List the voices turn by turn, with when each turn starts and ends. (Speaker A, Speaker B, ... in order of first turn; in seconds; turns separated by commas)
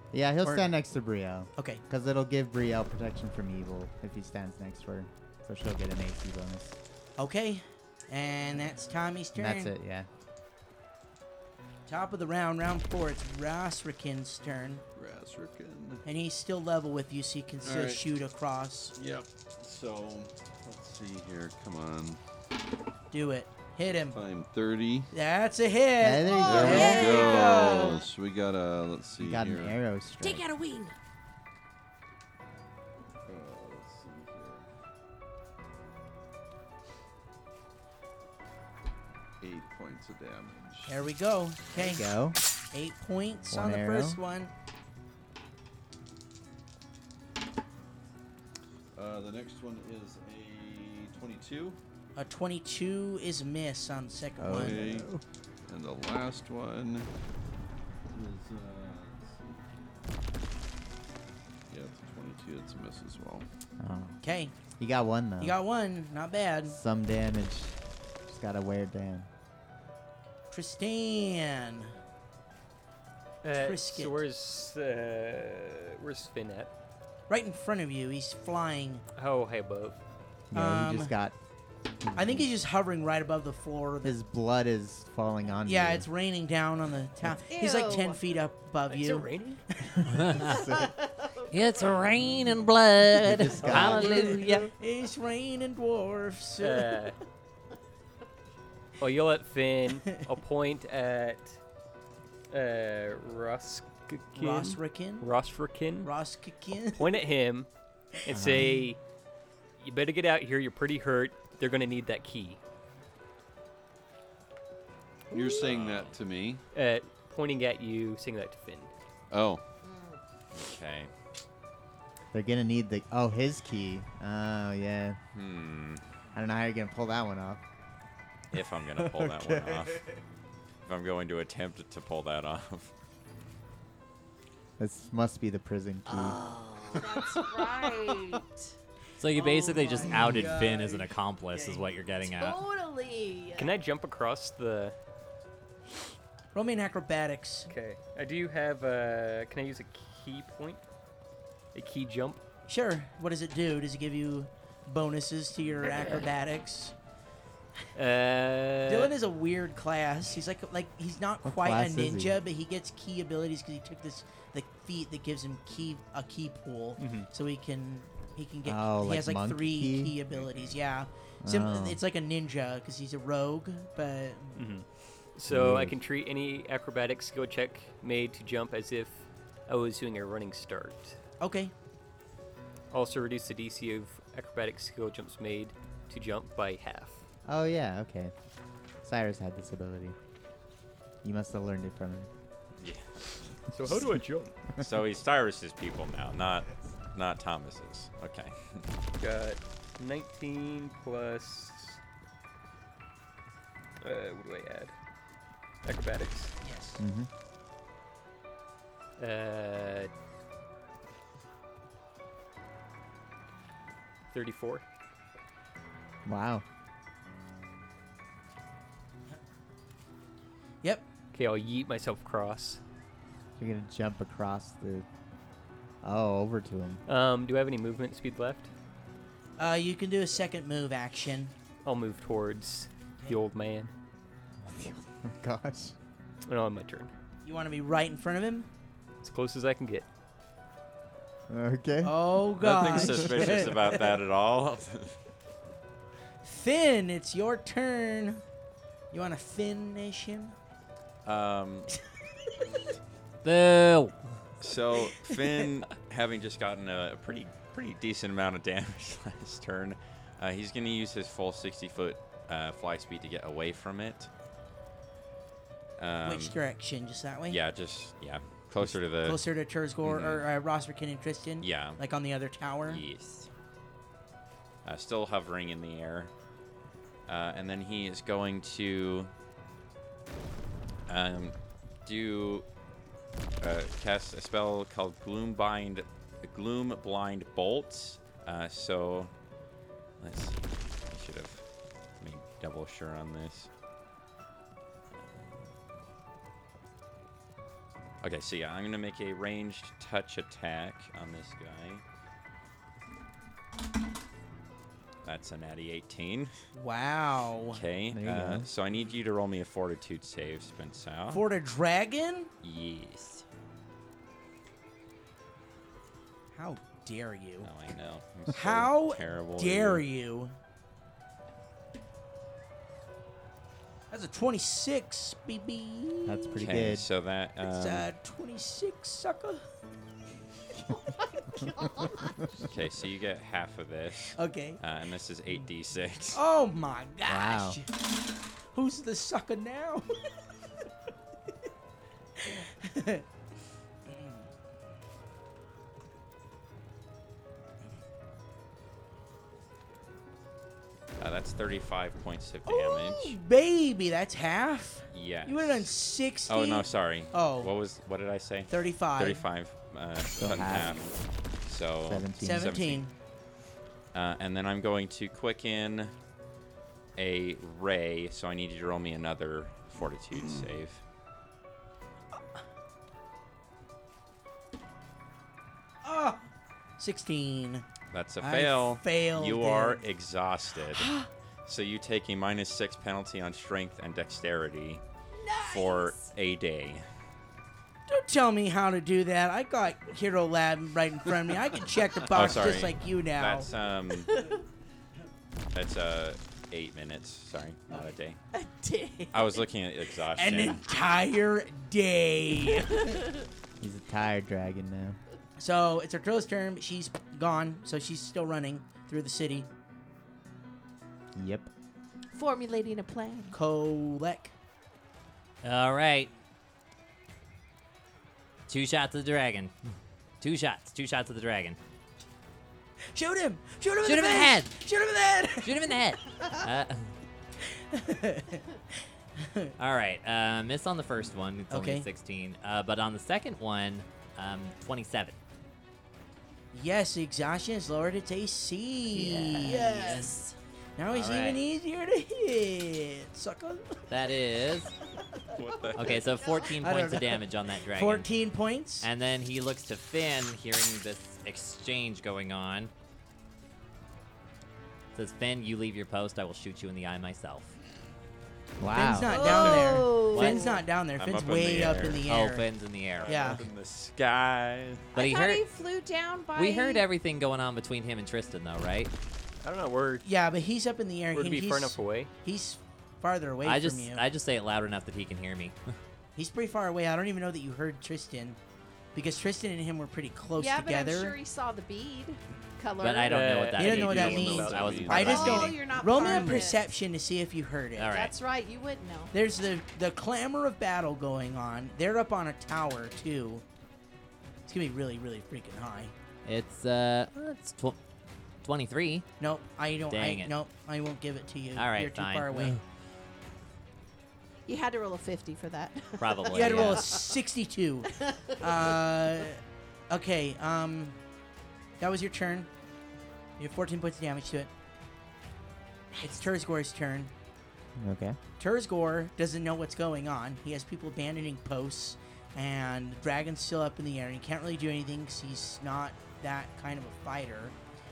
Speaker A: 0.1-6.8, Speaker B: 0.4-0.7, Speaker B: 1.6-1.8, Speaker B: 7.2-9.7, Speaker A: 9.3-10.1, Speaker B: 11.9-14.8, Speaker C: 14.9-16.0, Speaker B: 16.1-18.9, Speaker C: 17.6-18.0, Speaker C: 18.9-22.2, Speaker B: 23.1-24.2, Speaker C: 24.0-25.1, Speaker B: 25.1-28.0, Speaker A: 26.0-27.1, Speaker D: 26.2-27.9, Speaker C: 26.4-29.8, Speaker A: 29.2-30.5, Speaker D: 30.2-30.9, Speaker C: 33.2-34.7, Speaker C: 39.4-41.0, Speaker B: 40.9-42.1, Speaker A: 41.7-42.4, Speaker B: 42.7-44.5, Speaker A: 43.5-44.2, Speaker C: 49.0-51.8, Speaker B: 52.2-55.0, Speaker A: 54.4-55.2, Speaker C: 54.5-55.1, Speaker C: 55.7-57.1, Speaker C: 58.1-59.8, Speaker C: 61.7-63.5, Speaker A: 63.8-64.2, Speaker B: 64.2-64.5, Speaker A: 64.8-65.6, Speaker B: 65.4-66.8, Speaker A: 66.7-69.3, Speaker B: 70.5-71.9, Speaker E: 73.4-76.7, Speaker B: 73.6-74.1, Speaker B: 77.3-79.0, Speaker E: 79.2-80.0, Speaker A: 80.5-81.4, Speaker B: 80.5-81.1, Speaker A: 82.0-82.5, Speaker B: 82.2-84.2, Speaker A: 84.0-86.1, Speaker B: 85.7-90.2, Speaker D: 87.5-88.2, Speaker E: 88.9-89.6, Speaker F: 90.1-90.5, Speaker A: 90.3-90.9, Speaker D: 90.4-91.9, Speaker F: 91.5-94.7, Speaker A: 92.2-92.6, Speaker A: 93.2-94.3, Speaker B: 93.7-96.9, Speaker D: 93.7-94.7, Speaker E: 96.6-97.2, Speaker E: 99.0-101.6, Speaker E: 102.5-106.1, Speaker B: 104.3-105.3, Speaker B: 106.0-107.1, Speaker E: 107.0-107.7, Speaker E: 108.2-109.0, Speaker A: 108.3-108.9, Speaker E: 109.8-112.6, Speaker C: 115.3-116.6, Speaker G: 115.6-116.2, Speaker E: 116.7-118.9, Speaker C: 119.3-119.6, Speaker D: 119.8-120.2, Speaker G: 120.5-121.1, Speaker A: 122.3-125.2, Speaker G: 125.3-126.0, Speaker A: 126.3-127.6, Speaker G: 128.5-130.1, Speaker A: 129.0-130.2, Speaker G: 130.8-132.9, Speaker A: 134.8-136.4, Speaker D: 136.1-138.7, Speaker A: 136.9-137.5, Speaker F: 139.2-142.6, Speaker B: 139.3-142.0, Speaker D: 142.2-143.7, Speaker E: 143.6-144.9, Speaker B: 146.5-147.7, Speaker E: 147.7-150.8, Speaker E: 151.7-152.4, Speaker B: 152.7-156.9, Speaker E: 155.9-156.2, Speaker E: 157.9-159.2, Speaker B: 158.9-174.6, Speaker A: 161.4-162.4, Speaker E: 167.0-167.3, Speaker A: 168.6-170.2, Speaker A: 171.4-172.0, Speaker E: 174.6-181.2, Speaker A: 175.5-176.0, Speaker B: 181.4-181.7, Speaker E: 182.9-187.2, Speaker A: 187.5-188.3, Speaker A: 189.0-190.2, Speaker A: 191.2-192.3, Speaker G: 192.8-193.2, Speaker E: 193.7-194.6, Speaker G: 194.8-198.8, Speaker E: 199.2-202.0, Speaker E: 204.0-204.9, Speaker E: 205.8-206.6, Speaker B: 206.6-207.0, Speaker A: 207.0-207.3, Speaker E: 209.2-210.1, Speaker E: 214.3-214.8, Speaker A: 216.3-216.6, Speaker E: 221.3-222.8, Speaker A: 223.6-225.1, Speaker A: 226.0-227.0, Speaker E: 227.1-228.7, Speaker B: 229.6-231.5, Speaker E: 231.8-233.9, Speaker A: 234.7-236.0, Speaker E: 236.5-237.1, Speaker B: 237.4-238.7, Speaker E: 239.2-240.1, Speaker A: 241.5-243.6, Speaker B: 242.0-244.2, Speaker G: 242.6-245.2, Speaker B: 246.4-248.4, Speaker B: 249.1-250.6, Speaker G: 251.2-251.9, Speaker F: 253.4-254.2, Speaker G: 254.6-264.3, Speaker G: 266.0-266.6, Speaker B: 266.2-267.6, Speaker G: 267.5-269.4, Speaker B: 268.8-273.0, Speaker G: 270.0-270.4, Speaker G: 271.6-272.0, Speaker G: 272.9-273.5, Speaker G: 274.9-276.3, Speaker G: 277.3-279.3, Speaker G: 281.1-282.7, Speaker G: 283.6-289.3, Speaker G: 290.2-291.6, Speaker G: 292.2-293.7, Speaker G: 298.2-302.0, Speaker G: 305.2-306.5, Speaker B: 306.7-307.8, Speaker G: 307.7-311.4, Speaker A: 308.1-308.7, Speaker B: 311.3-312.5, Speaker G: 312.6-313.4, Speaker B: 316.5-317.7, Speaker G: 317.6-320.0, Speaker B: 318.5-320.5, Speaker B: 324.1-326.6, Speaker A: 326.2-327.1, Speaker G: 326.6-328.1, Speaker B: 327.6-329.6, Speaker D: 330.9-332.4, Speaker G: 332.6-336.4, Speaker B: 334.3-334.8, Speaker B: 336.3-338.0, Speaker A: 337.3-337.8, Speaker B: 338.7-340.2, Speaker B: 342.4-343.2, Speaker B: 344.1-344.4, Speaker G: 351.2-353.4, Speaker B: 352.7-357.7, Speaker G: 355.1-355.9, Speaker G: 356.5-363.1, Speaker B: 358.7-359.5, Speaker C: 360.4-361.1, Speaker A: 360.4-361.2, Speaker A: 362.1-362.8, Speaker B: 362.4-363.1, Speaker G: 364.1-366.1, Speaker G: 367.2-371.0, Speaker B: 376.0-377.9, Speaker G: 378.1-381.1, Speaker B: 378.4-380.0, Speaker B: 380.9-381.3, Speaker G: 381.7-385.0, Speaker D: 385.4-386.3, Speaker G: 385.6-387.1, Speaker B: 388.1-393.7, Speaker G: 392.3-394.4, Speaker D: 394.3-394.6, Speaker G: 395.7-398.4, Speaker D: 398.5-399.6, Speaker G: 399.3-400.8, Speaker B: 400.4-403.2, Speaker D: 402.7-403.5, Speaker A: 403.8-405.2, Speaker B: 405.6-409.7, Speaker A: 411.4-411.7, Speaker D: 412.3-413.6, Speaker B: 413.5-414.5, Speaker F: 415.6-416.3, Speaker F: 418.7-419.7, Speaker F: 420.4-421.8, Speaker B: 423.1-426.0, Speaker F: 424.0-424.8, Speaker F: 425.6-427.1, Speaker B: 427.7-428.6, Speaker B: 429.4-429.7, Speaker F: 429.8-435.4, Speaker B: 431.7-432.1, Speaker B: 436.7-440.3, Speaker D: 439.2-440.6, Speaker F: 439.2-439.6, Speaker B: 441.0-444.1, Speaker F: 441.1-441.6, Speaker F: 444.1-444.9, Speaker G: 445.5-446.3, Speaker F: 446.0-448.3, Speaker D: 446.2-446.8, Speaker B: 446.8-449.1, Speaker F: 449.0-452.9, Speaker F: 455.1-457.7, Speaker A: 458.8-459.4, Speaker B: 458.9-462.7, Speaker D: 459.2-460.8, Speaker G: 459.4-460.0, Speaker F: 460.2-460.8, Speaker G: 461.2-462.2, Speaker F: 462.2-463.6, Speaker G: 463.1-465.1, Speaker B: 463.3-463.6, Speaker D: 465.1-467.1, Speaker F: 465.2-465.6, Speaker F: 466.6-469.1, Speaker E: 469.6-470.3, Speaker B: 470.2-474.2, Speaker E: 471.3-472.3, Speaker F: 473.6-475.8, Speaker B: 476.4-478.6, Speaker B: 479.1-481.4, Speaker D: 480.6-483.7, Speaker F: 483.0-486.6, Speaker E: 483.3-485.2, Speaker B: 483.8-488.2, Speaker C: 484.1-485.7, Speaker D: 485.2-486.9, Speaker F: 488.0-488.4, Speaker D: 488.1-489.3, Speaker B: 489.3-493.6, Speaker B: 494.7-496.1, Speaker F: 496.4-498.0, Speaker F: 498.6-499.3, Speaker B: 499.4-502.8, Speaker F: 500.1-500.6, Speaker F: 501.8-502.8, Speaker D: 504.7-507.4, Speaker F: 506.2-507.2, Speaker B: 506.5-511.2, Speaker D: 508.1-509.2, Speaker B: 512.0-512.7, Speaker B: 513.6-514.7, Speaker B: 516.2-517.3, Speaker A: 518.0-518.4, Speaker B: 518.6-527.8